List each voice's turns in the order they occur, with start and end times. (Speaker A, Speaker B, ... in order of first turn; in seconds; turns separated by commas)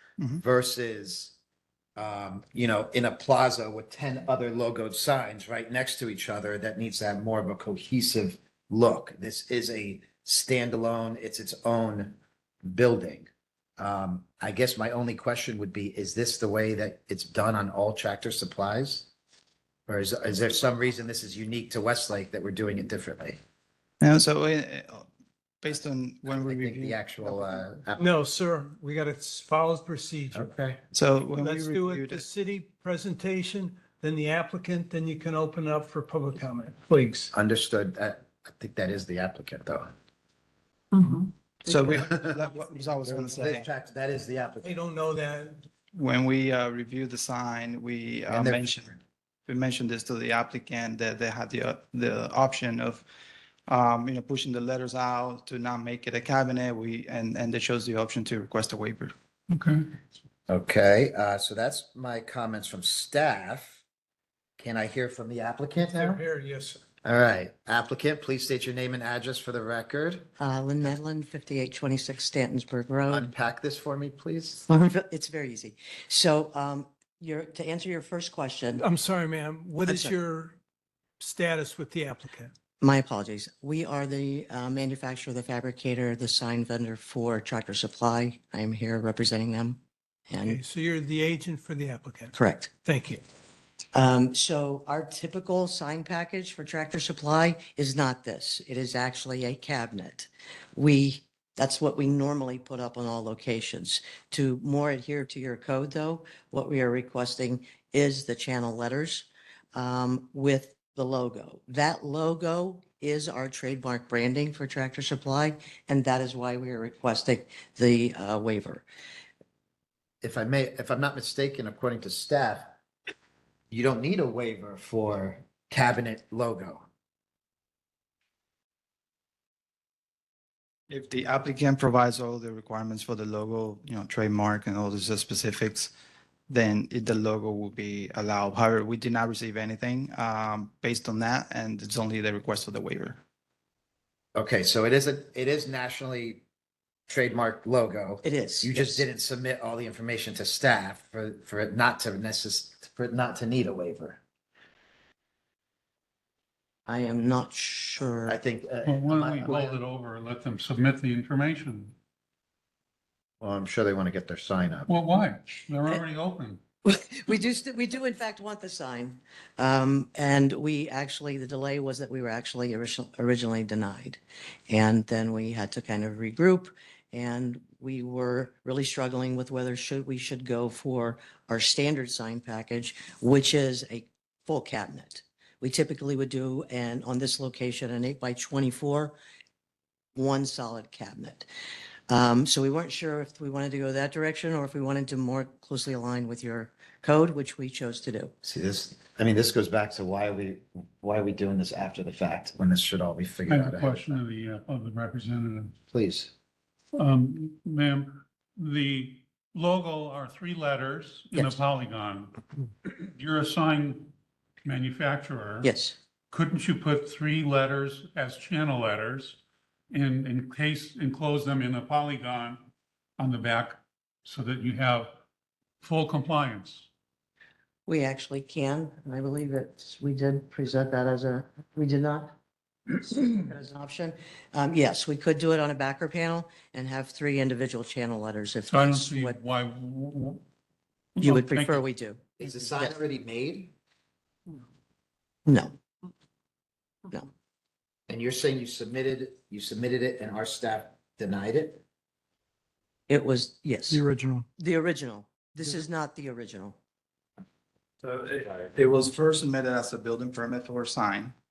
Speaker A: 0.4-1.4, Speaker A: 2.0-19.1, Speaker A: 19.9-23.4, Speaker B: 24.0-25.1, Speaker B: 25.6-27.6, Speaker A: 26.3-28.1, Speaker C: 28.0-30.8, Speaker A: 30.4-30.8, Speaker B: 30.9-32.2, Speaker C: 31.4-37.3, Speaker A: 37.3-39.9, Speaker B: 41.7-43.7, Speaker A: 41.9-42.4, Speaker A: 43.1-44.8, Speaker C: 44.6-45.7, Speaker B: 45.9-53.0, Speaker A: 48.3-49.0, Speaker B: 53.7-59.1, Speaker D: 59.5-59.9, Speaker A: 60.5-63.8, Speaker A: 64.6-66.2, Speaker C: 65.8-66.8, Speaker A: 67.0-70.3, Speaker E: 70.4-73.3, Speaker A: 73.1-74.7, Speaker E: 74.7-78.8, Speaker C: 78.8-80.6, Speaker E: 79.8-80.2, Speaker C: 81.2-82.5, Speaker E: 82.8-89.8, Speaker E: 90.3-90.6, Speaker C: 90.4-93.2, Speaker E: 92.3-92.7, Speaker E: 93.9-118.9, Speaker A: 120.2-122.8, Speaker A: 123.7-126.8, Speaker B: 130.9-135.9, Speaker B: 136.5-143.2, Speaker A: 144.3-146.4, Speaker A: 147.1-154.2, Speaker E: 148.2-149.1, Speaker E: 156.9-158.4, Speaker A: 158.3-159.8, Speaker D: 158.8-161.9, Speaker A: 163.4-164.9, Speaker D: 164.9-166.6, Speaker E: 166.8-189.2, Speaker E: 190.2-191.5, Speaker E: 192.1-198.3, Speaker A: 198.4-204.2, Speaker D: 203.5-205.7, Speaker A: 205.9-206.3, Speaker D: 207.0-214.1, Speaker E: 211.3-211.6, Speaker D: 214.6-215.7, Speaker E: 215.6-216.0, Speaker D: 216.3-219.4, Speaker D: 219.9-222.7, Speaker D: 223.2-225.1, Speaker D: 225.8-226.9, Speaker E: 227.9-232.4, Speaker E: 232.9-239.4, Speaker D: 238.7-240.4, Speaker D: 241.2-241.8, Speaker E: 241.2-242.2, Speaker A: 242.4-243.7, Speaker E: 245.5-245.8, Speaker A: 248.1-251.8, Speaker E: 253.1-254.0, Speaker C: 253.9-254.5, Speaker E: 254.6-256.8, Speaker B: 258.0-261.3